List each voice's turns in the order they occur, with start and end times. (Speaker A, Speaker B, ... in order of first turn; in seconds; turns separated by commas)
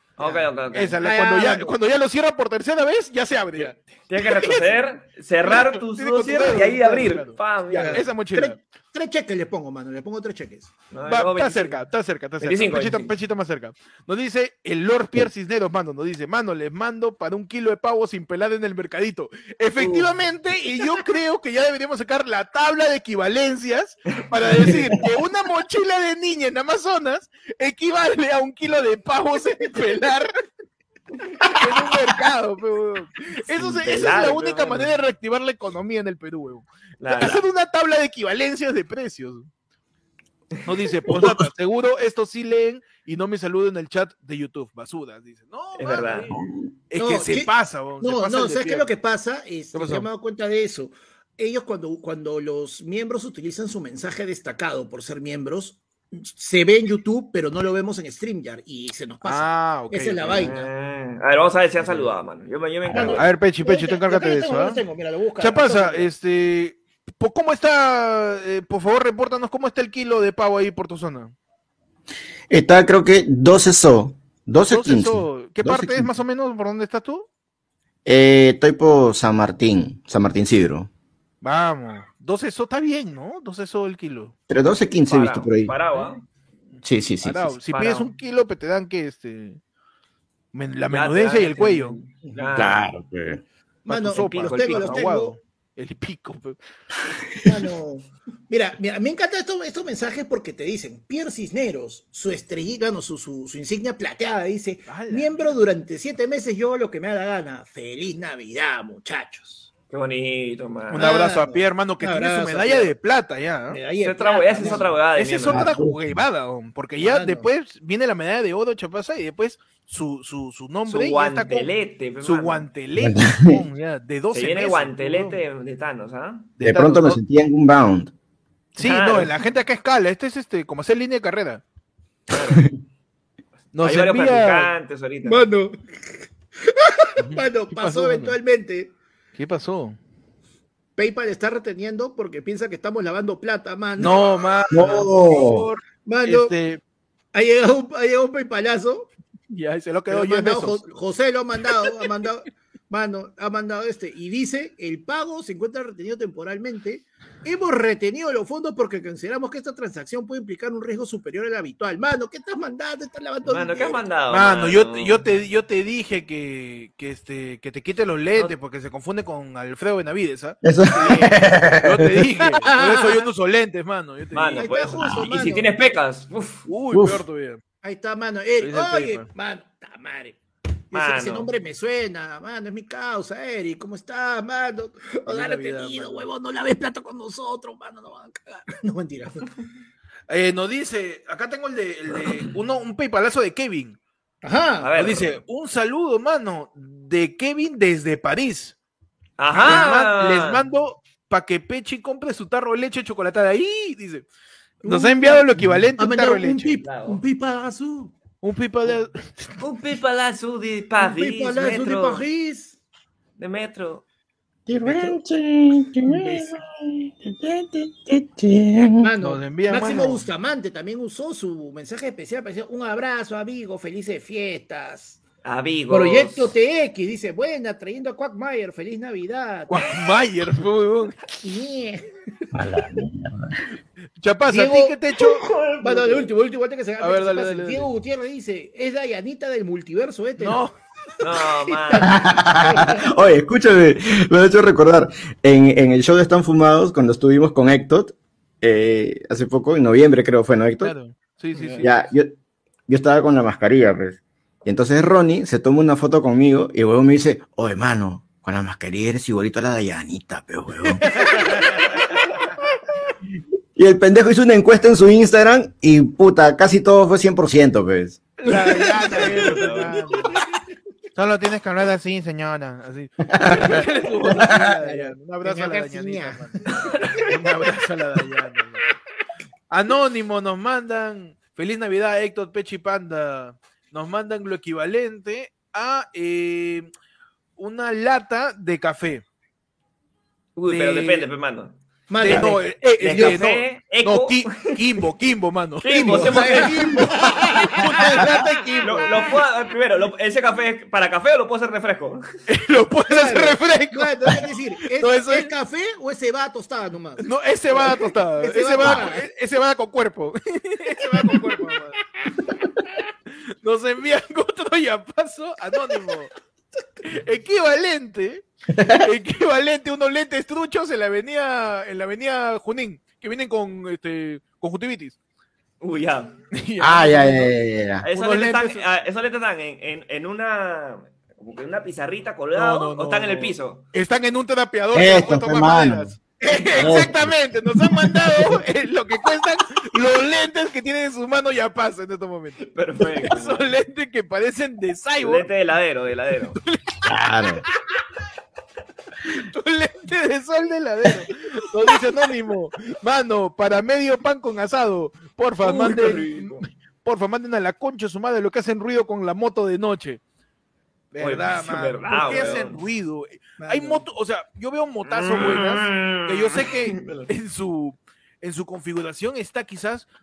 Speaker A: 0.2-1.0, Speaker B: 0.2-0.5, Speaker C: 0.7-4.7, Speaker B: 1.0-1.8, Speaker A: 4.1-8.0, Speaker C: 5.4-8.6, Speaker B: 7.7-10.7, Speaker A: 10.9-11.8, Speaker C: 11.1-30.3, Speaker A: 12.4-13.1, Speaker C: 31.5-39.5, Speaker A: 33.8-35.0, Speaker A: 37.0-37.4, Speaker C: 40.6-48.9, Speaker A: 45.8-46.3, Speaker D: 46.3-46.7, Speaker B: 47.0-60.7, Speaker C: 49.7-50.1, Speaker C: 59.2-60.5, Speaker A: 60.3-63.2, Speaker B: 62.9-66.1, Speaker C: 63.0-64.8, Speaker C: 65.4-71.3, Speaker D: 72.5-76.1, Speaker C: 74.7-77.3, Speaker D: 78.0-80.9, Speaker C: 81.4-84.3, Speaker D: 84.5-85.8, Speaker A: 85.1-86.2, Speaker D: 86.8-87.5, Speaker C: 87.2-89.6, Speaker A: 87.7-88.1, Speaker C: 90.5-92.0, Speaker A: 90.9-92.8, Speaker B: 92.3-92.6, Speaker D: 92.5-93.4, Speaker B: 93.9-95.4, Speaker C: 93.9-96.6, Speaker A: 94.1-95.1, Speaker B: 97.5-109.7, Speaker C: 104.9-105.5, Speaker A: 109.9-111.1, Speaker C: 110.9-113.8, Speaker B: 111.0-112.9, Speaker B: 113.7-114.9, Speaker A: 114.0-115.7, Speaker C: 114.6-125.4, Speaker D: 115.5-116.2, Speaker B: 117.0-117.5, Speaker A: 120.9-122.7, Speaker D: 123.0-123.6, Speaker A: 124.3-126.5, Speaker C: 126.6-127.2, Speaker D: 126.6-128.1, Speaker C: 128.8-131.6, Speaker A: 128.8-129.3, Speaker A: 132.3-132.7, Speaker C: 133.7-134.7, Speaker A: 133.8-135.4, Speaker B: 135.2-138.9, Speaker C: 137.2-138.4, Speaker C: 139.4-140.0, Speaker B: 141.0-144.8, Speaker C: 144.0-146.8, Speaker D: 144.7-145.7, Speaker B: 146.1-146.5, Speaker B: 147.3-149.1, Speaker C: 149.5-150.8, Speaker B: 150.1-164.1, Speaker A: 163.4-165.2, Speaker C: 164.3-174.7, Speaker D: 170.6-172.3, Speaker B: 172.7-173.2, Speaker A: 174.3-176.7, Speaker B: 174.6-175.7, Speaker C: 176.7-177.6, Speaker D: 176.9-177.2, Speaker B: 177.8-180.4, Speaker C: 178.6-179.3, Speaker B: 180.9-189.6, Speaker A: 180.9-181.5, Speaker C: 185.3-186.3, Speaker C: 190.3-194.0, Speaker B: 194.4-194.9, Speaker A: 194.8-195.4, Speaker C: 195.0-198.8, Speaker A: 199.4-200.6, Speaker C: 199.5-204.3, Speaker B: 204.8-208.1, Speaker C: 204.8-206.8, Speaker A: 206.8-207.2, Speaker C: 208.4-209.5, Speaker A: 209.6-212.2, Speaker B: 211.0-212.8, Speaker A: 213.4-214.0, Speaker D: 214.7-219.1, Speaker B: 214.8-215.2, Speaker B: 216.1-216.5, Speaker B: 219.0-225.2, Speaker C: 219.2-220.2, Speaker A: 225.4-226.5, Speaker B: 225.9-229.8, Speaker C: 229.7-231.2, Speaker B: 231.4-232.1, Speaker D: 232.5-233.6, Speaker C: 234.2-235.4, Speaker B: 234.5-235.0, Speaker A: 235.6-236.3, Speaker B: 235.8-240.6, Speaker C: 237.0-237.9, Speaker C: 240.4-240.7, Speaker A: 241.2-242.1, Speaker B: 241.2-243.1, Speaker D: 242.0-250.9, Speaker C: 250.8-252.1, Speaker D: 251.8-252.3, Speaker D: 252.9-261.1, Speaker C: 260.8-261.7, Speaker D: 263.8-268.2, Speaker C: 268.4-270.3, Speaker B: 268.5-270.6, Speaker C: 271.2-276.6, Speaker D: 273.4-273.8, Speaker B: 274.2-277.3, Speaker C: 277.1-278.9, Speaker C: 279.7-286.9, Speaker C: 287.6-289.2, Speaker A: 290.6-294.7, Speaker C: 290.7-291.3, Speaker B: 292.1-293.5, Speaker C: 292.2-299.2, Speaker A: 295.8-296.7, Speaker B: 295.9-299.1, Speaker A: 298.8-302.2, Speaker C: 302.5-304.5, Speaker B: 303.1-309.2, Speaker C: 305.0-305.5, Speaker C: 307.2-312.0, Speaker B: 311.0-311.7, Speaker B: 312.2-313.0, Speaker C: 313.6-316.3, Speaker C: 317.0-325.2, Speaker A: 325.8-326.3, Speaker C: 326.5-327.5, Speaker D: 326.8-328.1, Speaker A: 328.0-333.8, Speaker C: 328.1-328.8, Speaker C: 332.6-342.7, Speaker D: 334.9-336.1, Speaker D: 336.8-337.4, Speaker A: 342.7-343.7, Speaker C: 343.2-345.5, Speaker A: 345.2-346.6, Speaker C: 346.6-347.0, Speaker D: 347.1-347.6, Speaker C: 349.4-360.2, Speaker A: 355.6-356.6, Speaker C: 361.1-370.1, Speaker A: 361.2-362.8, Speaker B: 363.6-364.1, Speaker A: 365.1-367.3